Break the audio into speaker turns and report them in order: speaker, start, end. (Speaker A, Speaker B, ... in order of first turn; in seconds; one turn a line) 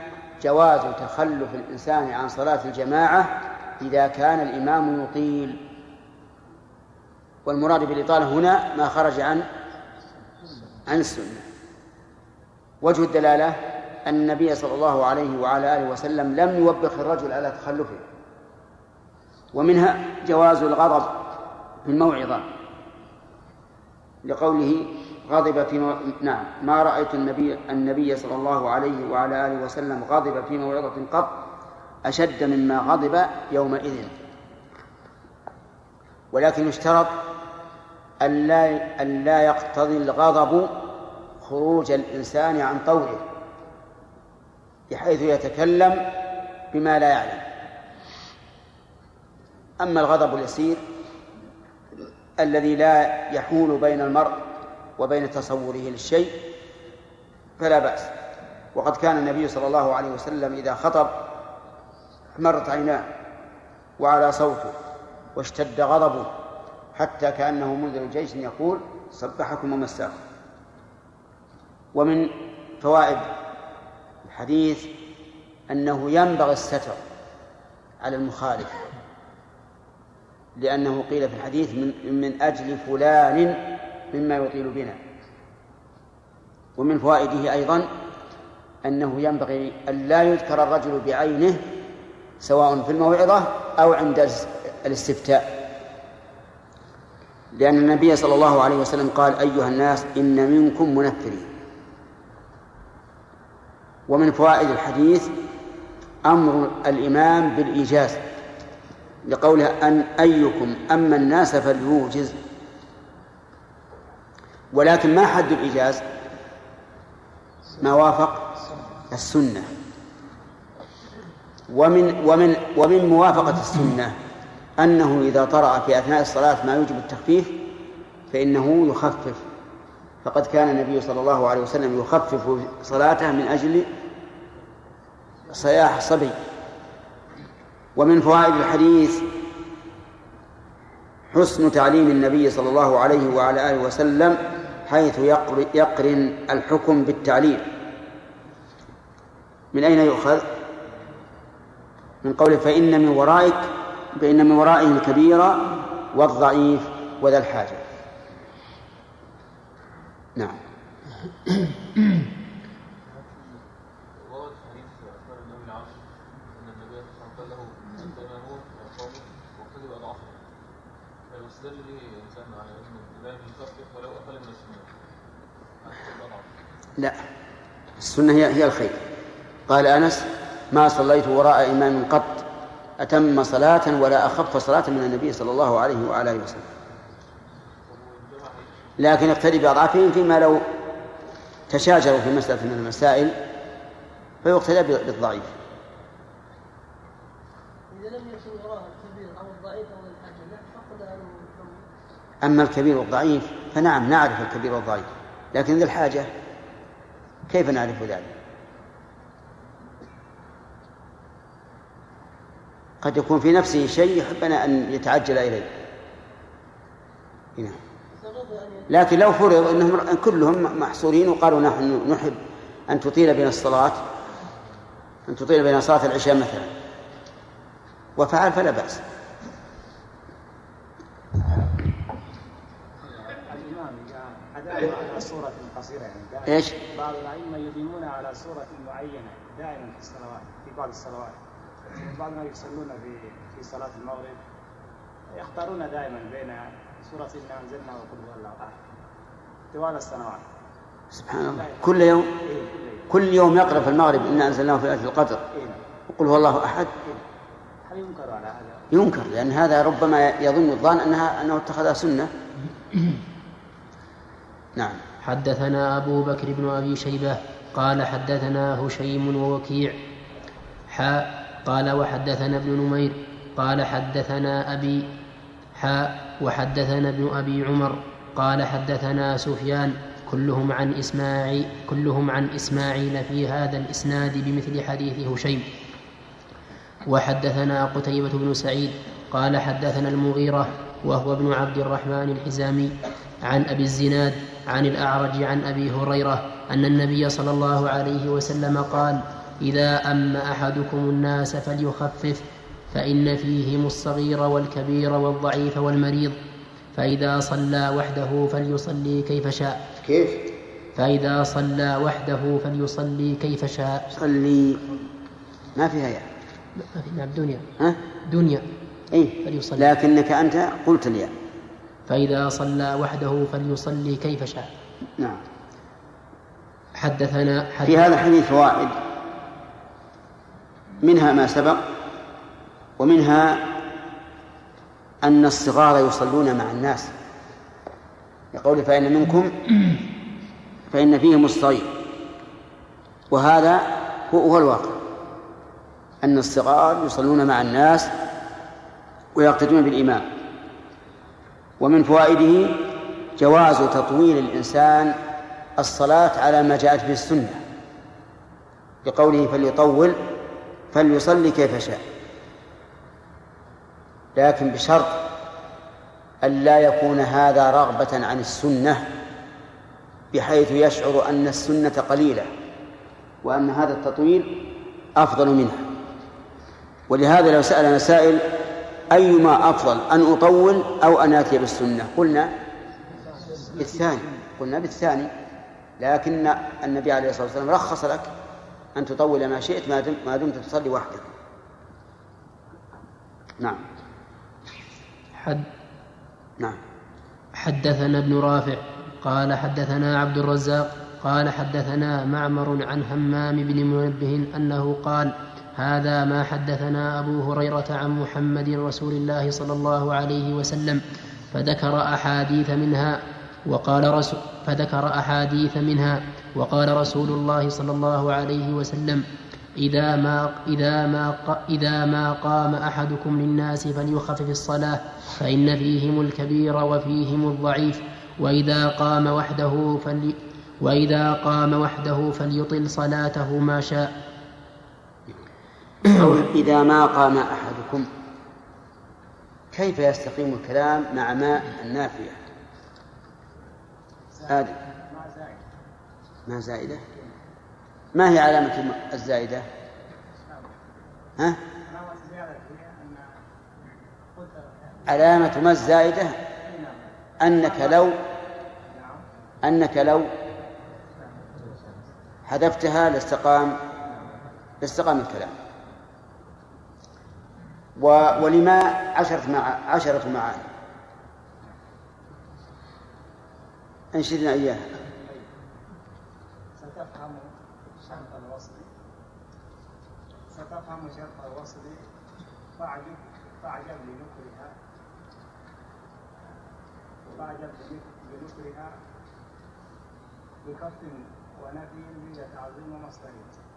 Speaker A: 0.4-5.6
Speaker A: 7.5-9.5
Speaker A: 10.9-11.5
Speaker A: 12.8-18.0
Speaker A: 19.5-21.3
Speaker A: 21.9-22.5
Speaker A: 24.2-31.4
Speaker A: 32.0-34.1
Speaker A: 36.3-37.2
Speaker A: 38.2-40.8
Speaker A: 41.4-43.3
Speaker A: 44.9-46.1
Speaker A: 46.7-47.4
Speaker A: 49.8-50.8
Speaker A: 52.4-54.4
Speaker A: 55.0-56.4
Speaker A: 57.6-58.1
Speaker A: 58.8-61.2
Speaker A: 62.4-63.1
Speaker A: 64.0-64.8
Speaker A: 65.3-66.3
Speaker A: 66.9-70.2
Speaker A: 71.9-73.3
Speaker A: 74.2-74.9
Speaker A: 75.7-77.0
Speaker A: 78.0-78.9
Speaker A: 80.6-85.0
Speaker A: 86.8-87.9
Speaker A: 88.8-91.7
Speaker A: 92.4-95.6
Speaker A: 97.5-101.5
Speaker A: 104.1-105.3
Speaker A: 106.2-108.2
Speaker A: 109.3-112.3
Speaker A: 114.7-116.0
Speaker A: 117.8-118.6
Speaker A: 119.1-119.7
Speaker A: 121.7-124.2
Speaker A: 124.8-127.6
Speaker A: 128.3-129.4
Speaker A: 130.2-133.9
Speaker A: 135.5-136.4
Speaker A: 138.0-139.3
Speaker A: 141.3-147.7
Speaker A: 149.7-150.5
Speaker A: 152.2-157.8
Speaker B: 164.2-170.4
Speaker B: 171.3-175.0
Speaker B: 175.8-176.5
Speaker A: 177.0-177.2
Speaker A: 178.0-179.0
Speaker A: 179.7-182.5
Speaker A: 183.0-186.7
Speaker B: 187.8-188.9
Speaker A: 189.0-190.7
Speaker A: 191.7-193.4
Speaker A: 194.4-195.5
Speaker C: 197.9-201.9
Speaker A: 202.4-206.3
Speaker A: 207.5-208.3
Speaker A: 213.0-215.7
Speaker C: 218.1-219.0
Speaker A: 218.9-224.0
Speaker A: 225.3-226.7
Speaker A: 228.2-229.0
Speaker D: 233.0-244.4
Speaker A: 236.5-236.8
Speaker D: 245.3-248.7
Speaker D: 249.7-250.5
Speaker A: 251.1-252.3
Speaker D: 251.4-253.0
Speaker A: 253.1-255.4
Speaker D: 255.5-255.8
Speaker A: 256.1-257.2
Speaker D: 257.8-258.9
Speaker A: 258.9-262.3
Speaker A: 264.8-265.0
Speaker E: 265.2-270.0
Speaker E: 270.9-275.1
Speaker E: 275.8-285.6
Speaker E: 287.1-306.4
Speaker E: 306.9-309.8
Speaker A: 310.0-310.4
Speaker E: 310.9-314.1
Speaker A: 314.1-314.9
Speaker A: 315.8-316.3
Speaker E: 316.8-317.7
Speaker E: 318.3-318.6
Speaker A: 319.1-321.3
Speaker E: 319.4-319.9
Speaker E: 322.1-324.7
Speaker A: 325.2-325.4
Speaker E: 327.0-328.1
Speaker A: 327.9-329.0
Speaker A: 331.0-331.9
Speaker A: 333.0-333.8
Speaker A: 335.2-337.1
Speaker A: 338.5-339.6
Speaker A: 340.9-341.9
Speaker A: 343.3-345.0
Speaker A: 346.2-348.1
Speaker A: 349.4-350.3
Speaker A: 351.8-355.2
Speaker A: 355.8-357.6
Speaker A: 359.0-360.2
Speaker A: 360.9-362.0
Speaker A: 364.4-365.3
Speaker A: 366.4-369.1
Speaker A: 370.3-372.5
Speaker A: 373.4-375.9
Speaker A: 377.1-378.5
Speaker A: 379.1-382.5
Speaker D: 383.5-383.8
Speaker A: 383.8-385.3
Speaker A: 386.0-388.3
Speaker A: 388.9-391.3
Speaker E: 395.4-395.7
Speaker E: 397.6-419.2
Speaker E: 419.8-434.1
Speaker A: 436.0-438.1
Speaker A: 439.7-442.4
Speaker D: 444.3-445.6
Speaker A: 444.5-444.8
Speaker A: 446.5-447.0
Speaker A: 448.1-449.7
Speaker D: 450.4-450.7
Speaker D: 451.8-453.4
Speaker D: 454.3-455.5
Speaker A: 455.1-456.4
Speaker D: 456.6-458.1
Speaker A: 457.4-458.2
Speaker D: 458.9-459.2
Speaker A: 459.6-460.3
Speaker D: 461.4-461.7
Speaker A: 462.5-463.8
Speaker A: 464.8-465.6
Speaker A: 468.0-470.6
Speaker A: 474.1-474.9
Speaker D: 475.0-475.5
Speaker D: 476.8-478.9
Speaker D: 480.5-482.0
Speaker D: 482.8-484.8
Speaker D: 487.2-488.9
Speaker D: 490.6-493.5